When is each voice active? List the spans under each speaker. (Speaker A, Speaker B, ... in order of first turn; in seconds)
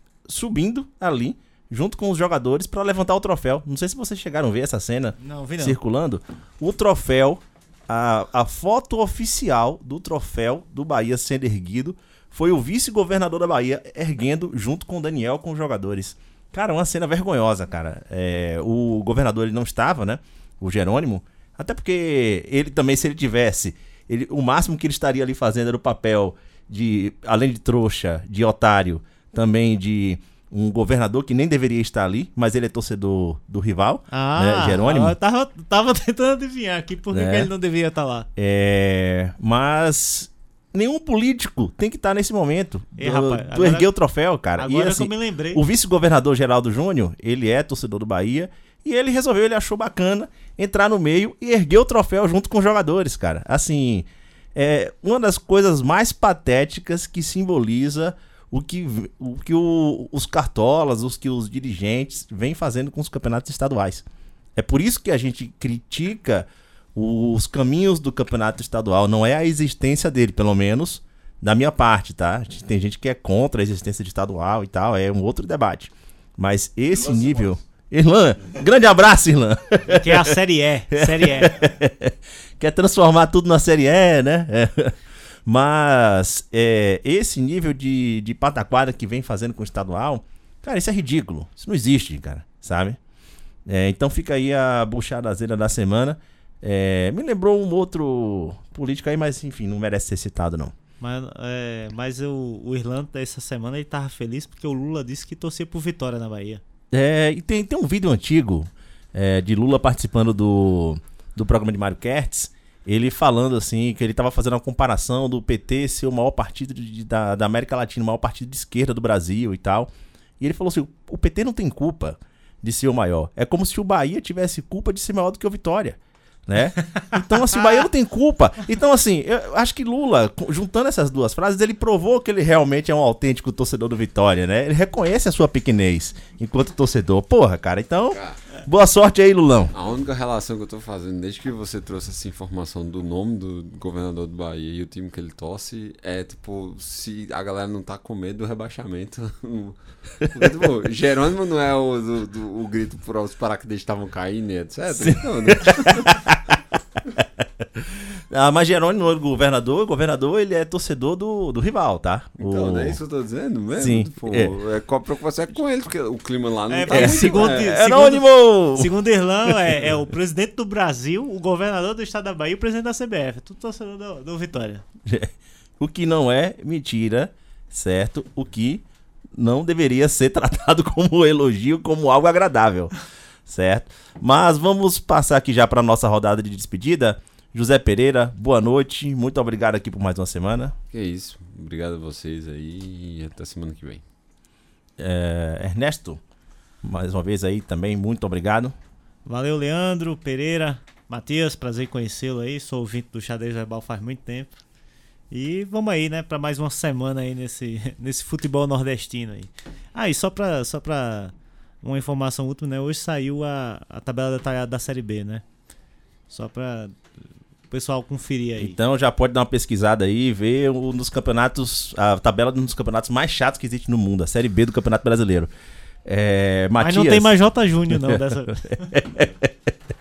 Speaker A: 0.3-35.1, 37.1-37.5, 38.4-80.3, 80.9-93.0, 93.7-100.7, 106.9-139.7, 154.9-156.6, 157.2-163.0, 163.8-164.5, 166.9-168.9, 169.5-169.8, 175.1-182.9, 183.4-190.7, 195.0-196.2, 196.8-198.8, 218.6-225.5, 226.0-229.7
Speaker B: 5.2-5.8, 34.1-38.3, 43.0-43.9, 44.6-45.6, 79.8-81.5, 101.0-106.6, 166.7-174.8, 199.2-204.6, 205.3-215.4, 216.3-217.0, 217.7-218.8, 226.8-228.9
Speaker C: 138.1-138.4, 139.7-156.3, 162.4-167.7, 190.9-194.0